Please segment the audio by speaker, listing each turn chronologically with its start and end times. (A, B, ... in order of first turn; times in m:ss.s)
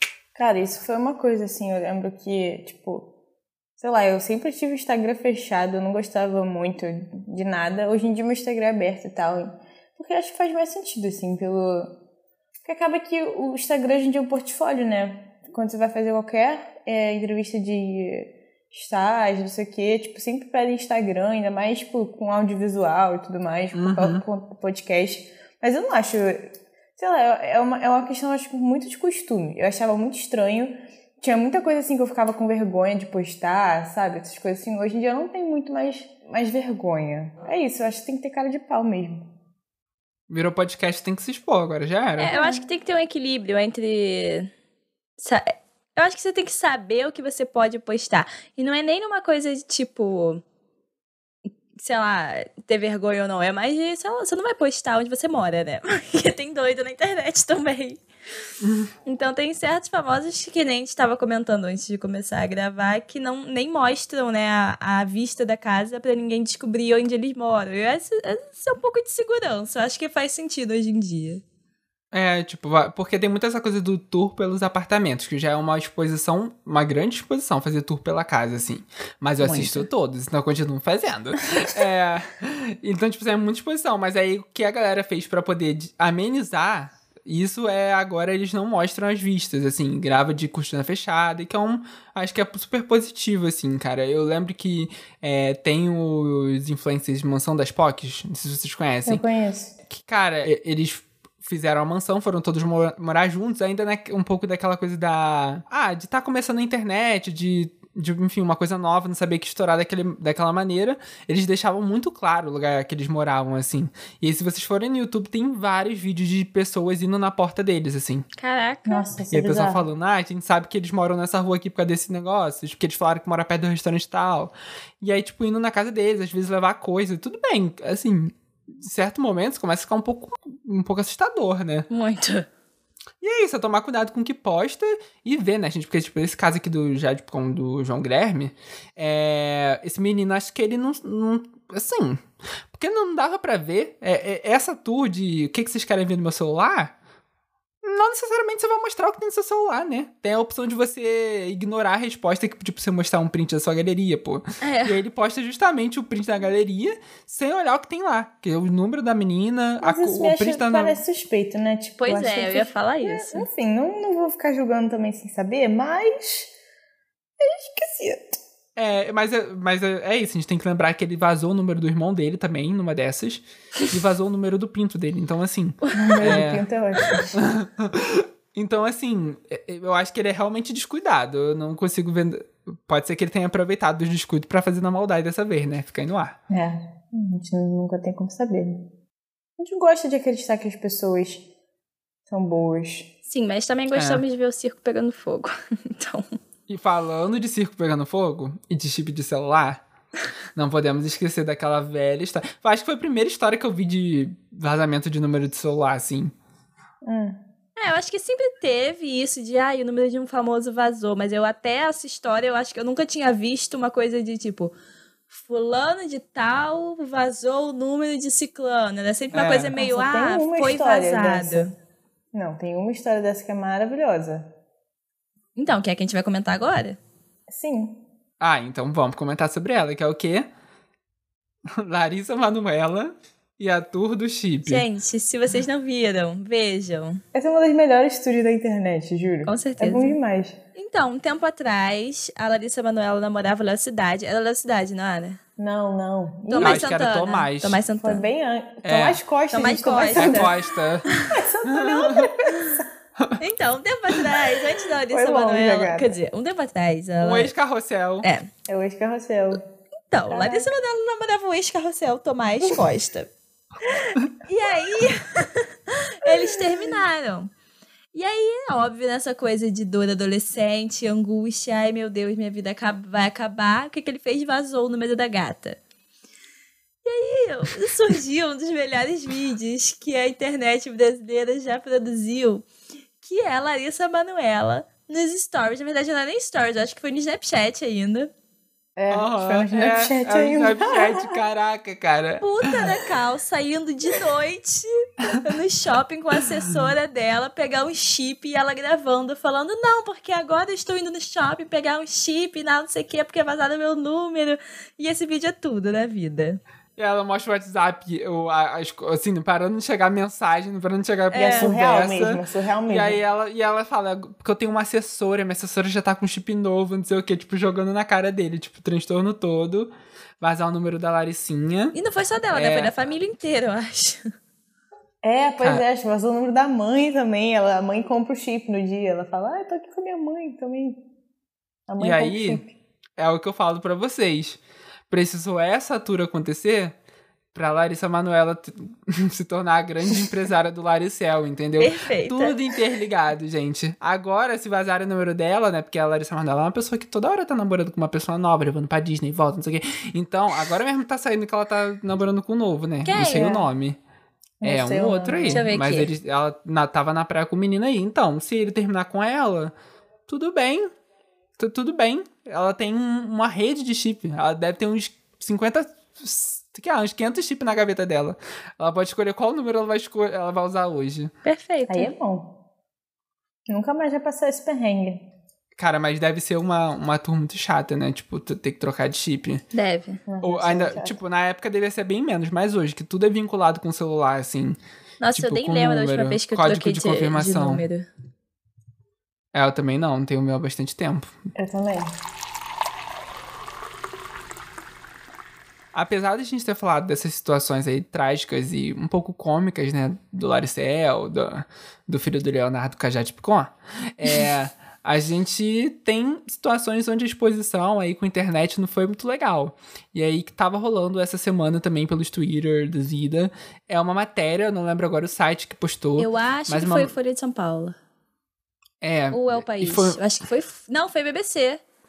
0:00.4-0:03.1 A
0:03.8-0:12.0 A
0:12.6-0:39.3 A
0:23.7-0:24.2 B
0:40.3-0:42.3 B
0:42.2-0:44.5 C
0:42.3-0:42.6 A
0:45.2-0:50.4 C
0:51.8-0:58.0 C
0:58.6-0:58.9 B
0:59.0-1:11.4 C
1:12.1-1:39.2 B
1:19.4-1:19.9 C
1:39.0-1:39.7 A
1:39.9-1:58.3 B
1:58.4-1:59.1 C
1:58.8-1:59.8 A
1:59.3-2:11.9 B
2:11.9-2:12.5 C
2:13.2-2:26.9 B
2:27.8-2:41.0 B
2:34.6-2:35.0 C
2:39.8-2:46.5 A
2:42.0-2:43.4 C
2:47.4-2:48.4 A
2:48.8-2:56.6 B
2:55.9-2:56.4 C
2:56.0-2:57.4 A
2:57.3-3:06.4 B
3:06.5-3:08.9 A
3:09.6-3:11.5 A
3:12.3-3:13.1 A
3:13.3-3:16.4 C
3:13.9-3:14.2 B
3:16.7-3:19.8 B
3:20.6-3:26.3 B
3:27.0-3:27.4 A
3:27.8-3:34.7 C
3:35.3-3:41.7 C
3:39.3-3:39.7 B
3:39.7-3:41.7 A
3:42.3-3:44.5 A
3:45.6-3:47.0 C
3:47.5-3:48.0 A
3:48.4-3:50.5 B
3:51.7-3:54.8 B
3:54.7-3:57.2 C
3:57.3-4:00.6 A
3:59.5-4:00.2 C
4:00.8-4:05.4 C
4:05.6-4:06.9 A
4:06.5-4:08.2 C
4:06.6-4:07.8 B
4:08.0-4:10.6 A
4:08.8-4:09.2 B
4:09.5-4:10.5 C
4:10.0-4:11.1 B
4:11.3-4:12.9 A
4:11.7-4:12.3 B
4:13.4-4:17.5 C
4:15.1-4:16.1 A
4:17.2-4:18.3 B
4:18.2-4:18.5 C
4:18.7-4:19.6 A
4:20.1-4:23.3 C
4:20.3-4:20.8 A
4:23.9-4:27.5 C
4:26.3-4:26.8 A
4:28.1-4:35.8 C
4:37.0-4:42.7 C
4:43.2-4:48.3 C
4:49.0-4:51.4 A
4:49.1-4:52.9 B
4:52.4-5:06.6 C
5:07.0-5:22.0 B
5:11.3-5:11.7 C
5:11.3-5:13.2 A
5:21.9-5:24.3 C
5:22.5-5:22.9 B
5:25.2-5:31.0 A
5:31.9-5:32.7 A
5:32.0-5:32.6 B
5:33.2-5:36.9 B
5:37.5-5:54.0 B
5:41.8-5:42.6 C
5:53.0-5:53.6 C
5:54.6-5:55.7 A
5:54.6-5:59.7 B
5:55.5-5:56.1 C
6:00.3-6:00.9 B
6:01.6-6:11.3 B
6:11.4-6:12.1 C
6:11.9-6:12.6 A
6:13.7-6:15.3 A
6:15.8-6:19.6 B
6:19.7-6:20.2 C
6:20.3-6:21.2 A
6:20.4-6:24.8 B
6:25.2-6:28.1 C
6:25.3-6:27.8 B
6:29.5-6:31.3 B
6:31.6-6:32.1 A
6:35.9-6:57.1 B
6:56.2-6:58.0 C
6:59.0-7:00.2 B
6:59.3-7:01.8 C